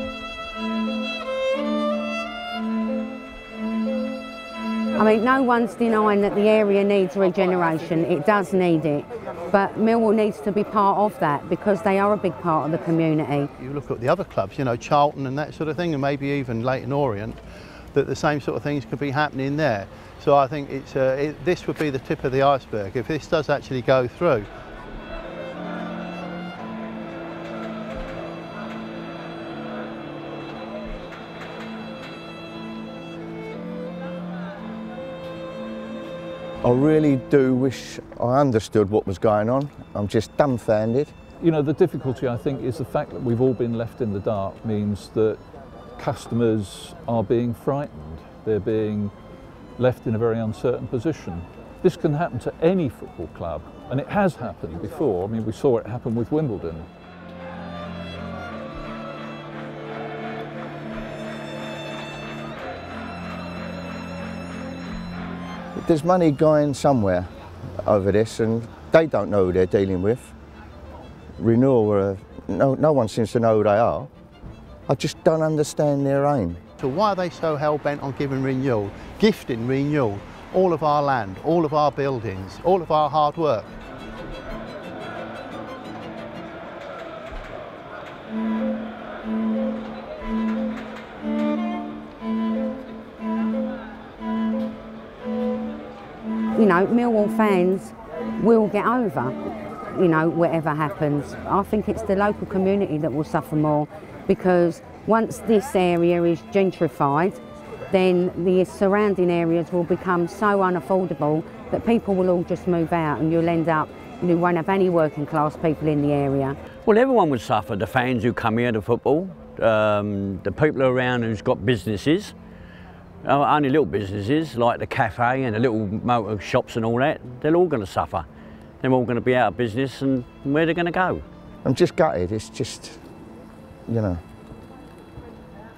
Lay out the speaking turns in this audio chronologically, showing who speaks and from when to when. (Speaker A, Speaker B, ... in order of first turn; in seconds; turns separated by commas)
Speaker A: 5.0-13.5, Speaker B: 13.6-17.4, Speaker B: 17.9-24.5, Speaker C: 36.6-41.1, Speaker D: 41.4-45.4, Speaker D: 46.0-49.1, Speaker D: 49.8-56.9, Speaker C: 65.8-70.3, Speaker C: 71.4-74.1, Speaker C: 74.9-76.6, Speaker B: 76.8-83.7, Speaker A: 96.6-99.3, Speaker A: 99.9-107.4, Speaker A: 107.9-116.6, Speaker E: 116.8-122.3, Speaker E: 123.2-128.3, Speaker E: 128.8-131.2, Speaker C: 131.6-133.0, Speaker C: 133.9-134.2